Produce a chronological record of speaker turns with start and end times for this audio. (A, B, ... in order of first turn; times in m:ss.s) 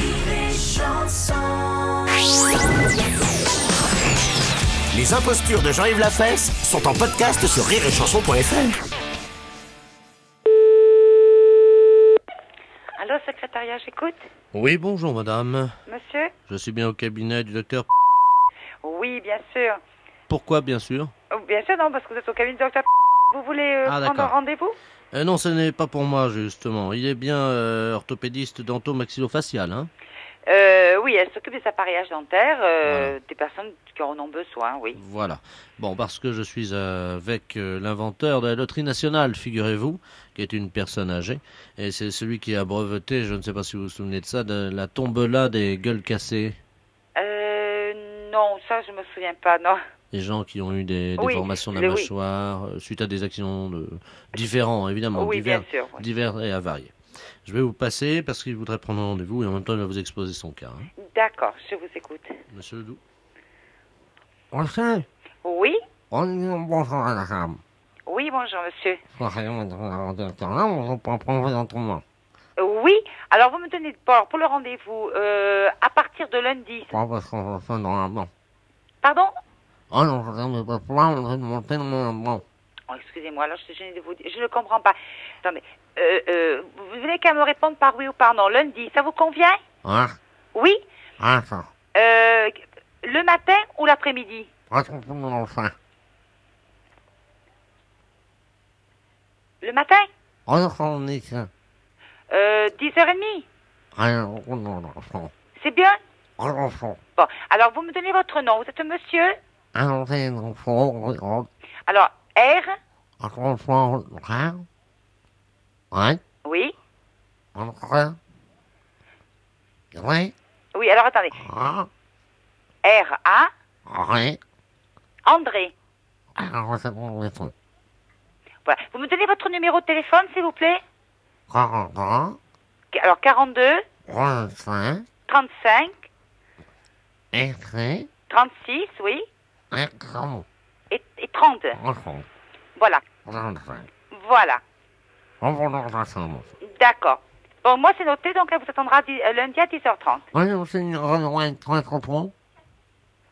0:00.6-0:01.0 A
0:04.9-0:08.8 A
0:13.0-0:14.2 B
0:14.5-0:15.7 C
0:15.8-0:16.3 B
0:16.5-0:17.9 C
0:18.8-0:19.8 B
0:20.3-0:21.1 C
0:21.3-0:24.8 B
0:23.8-0:24.4 C
0:25.1-0:29.9 C
0:30.4-0:35.0 B
0:32.8-0:33.2 C
0:35.0-0:46.6 C
0:47.2-0:49.8 B
0:50.1-1:00.9 C
0:51.2-0:52.1 B
0:55.1-0:56.0 B
1:01.0-1:02.4 B
1:02.5-1:03.0 C
1:04.5-1:05.0 D
1:05.4-1:05.8 B
1:06.1-1:07.6 D
1:08.0-1:09.0 B
1:09.1-1:12.0 D
1:12.6-1:17.0 B
1:16.9-1:18.3 D
1:19.0-1:19.3 B
1:19.9-1:22.4 D
1:22.9-1:29.6 B
1:29.8-1:30.2 D
1:30.5-1:30.8 B
1:31.2-1:31.7 D
1:31.9-1:34.5 B
1:34.7-1:35.7 D
1:39.6-1:40.1 B
1:40.5-1:41.5 D
1:42.3-1:43.5 B
1:43.9-1:45.3 D
1:45.6-1:46.0 B
1:46.4-1:47.0 D
1:47.2-1:49.4 B
1:49.7-1:51.5 D
1:51.9-1:52.8 B
1:53.2-1:54.6 D
1:55.9-1:56.2 D
1:56.4-1:56.7 B
1:57.5-1:58.2 D
1:59.9-2:00.3 D
2:00.7-2:01.4 B
2:01.3-2:01.9 D
2:02.8-2:03.5 B
2:03.9-2:04.4 D
2:05.2-2:05.7 B
2:06.4-2:07.5 D
2:08.6-2:10.8 B
2:11.5-2:12.4 D
2:12.9-2:13.8 B
2:14.1-2:15.0 D
2:15.3-2:16.0 B
2:17.3-2:18.1 D
2:18.3-2:19.2 B
2:19.7-2:20.4 D
2:20.9-2:21.8 B
2:21.7-2:22.2 D
2:22.8-2:23.0 B
2:23.2-2:23.9 D
2:24.1-2:24.6 B
2:25.4-2:26.5 D
2:26.6-2:30.3 B
2:30.3-2:32.3 D